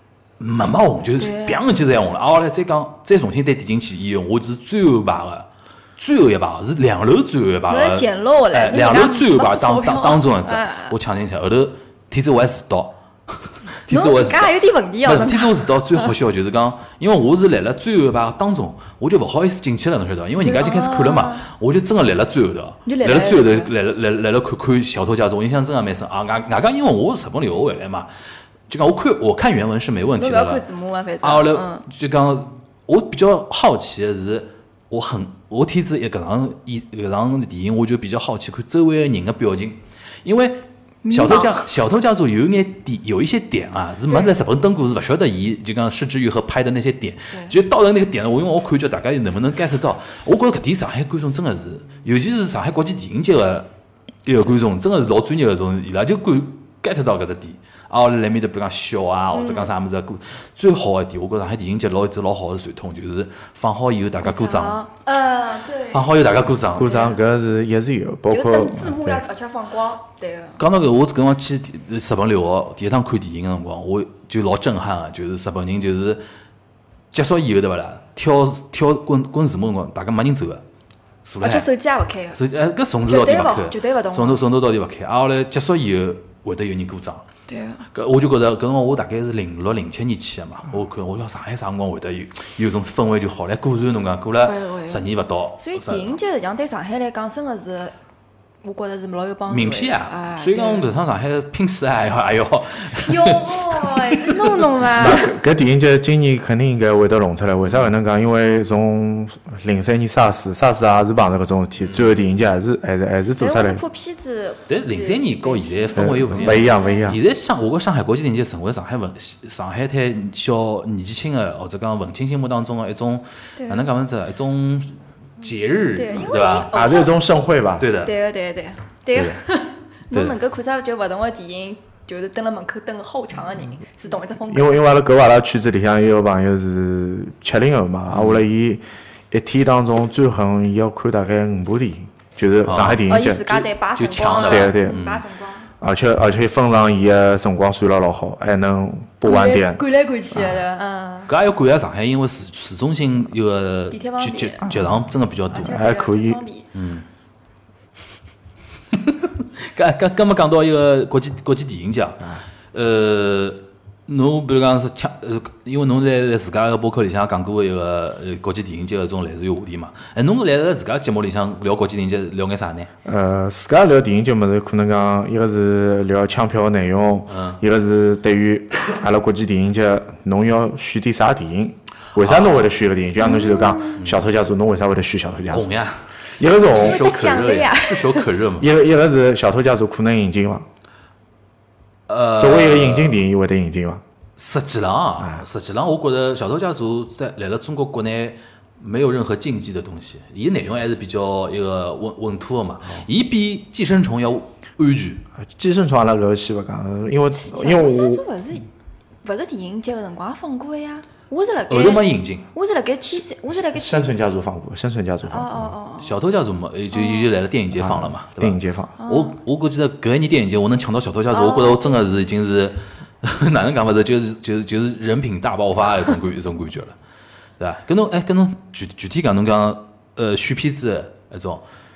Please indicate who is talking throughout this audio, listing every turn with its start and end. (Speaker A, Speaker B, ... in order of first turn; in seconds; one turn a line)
Speaker A: 0.4-28.1
Speaker B: 1.2-1.6
Speaker B: 7.7-10.9
Speaker B: 13.9-16.1
Speaker B: 20.4-21.4
Speaker B: 22.9-23.7
Speaker A: 28.7-30.6
Speaker B: 30.2-31.8
Speaker A: 31.2-53.7
Speaker B: 41.0-41.7
Speaker B: 44.1-44.4
Speaker A: 54.3-64.8
Speaker B: 59.3-59.7
Speaker B: 64.2-66.2
Speaker A: 65.9-66.9
Speaker B: 66.7-67.2
Speaker C: 66.7-69.2
Speaker B: 68.3-70.6
Speaker A: 70.6-76.2
Speaker A: 77.1-80.6
Speaker A: 81.2-81.7
Speaker B: 81.4-82.4
Speaker A: 82.3-87.3
Speaker B: 83.1-84.4
Speaker B: 87.5-87.8
Speaker A: 87.9-96.2
Speaker B: 94.4-95.0
Speaker B: 95.6-97.9
Speaker B: 98.6-100.9
Speaker A: 99.5-105.2
Speaker B: 103.0-105.2
Speaker C: 105.0-113.8
Speaker A: 111.8-112.1
Speaker B: 113.4-117.2
Speaker A: 114.7-126.7
Speaker C: 116.0-117.2
Speaker B: 123.6-123.9
Speaker B: 126.0-127.2
Speaker C: 126.7-127.9
Speaker A: 127.8-128.1
Speaker B: 128.0-134.8
Speaker A: 130.1-130.4
Speaker C: 134.5-143.7
Speaker A: 138.1-138.4
Speaker A: 142.7-143.1
Speaker B: 143.1-145.7
Speaker A: 144.0-145.2
Speaker C: 144.4-145.1
Speaker C: 145.8-149.8
Speaker B: 149.3-151.3
Speaker C: 150.3-150.6
Speaker A: 151.3-155.8
Speaker B: 153.9-154.7
Speaker B: 155.5-156.7
Speaker C: 155.6-156.4
Speaker A: 156.7-157.1
Speaker A: 158.9-172.9
Speaker C: 173.1-185.7
Speaker A: 177.3-177.6
Speaker A: 182.2-182.7
Speaker B: 183.2-184.0
Speaker A: 185.5-186.1
Speaker C: 186.4-187.1
Speaker A: 186.6-188.7
Speaker B: 186.8-188.3
Speaker C: 188.6-190.7
Speaker A: 192.1-193.2
Speaker C: 192.4-194.0
Speaker A: 194.4-205.2
Speaker C: 195.2-195.4
Speaker C: 205.4-208.2
Speaker B: 207.5-208.7
Speaker B: 209.2-214.1
Speaker A: 211.7-212.5
Speaker C: 213.8-215.7
Speaker B: 215.3-216.2
Speaker A: 216.0-227.0
Speaker B: 216.9-217.3
Speaker C: 217.8-219.0
Speaker B: 219.0-219.3
Speaker B: 221.3-222.0
Speaker A: 227.6-231.7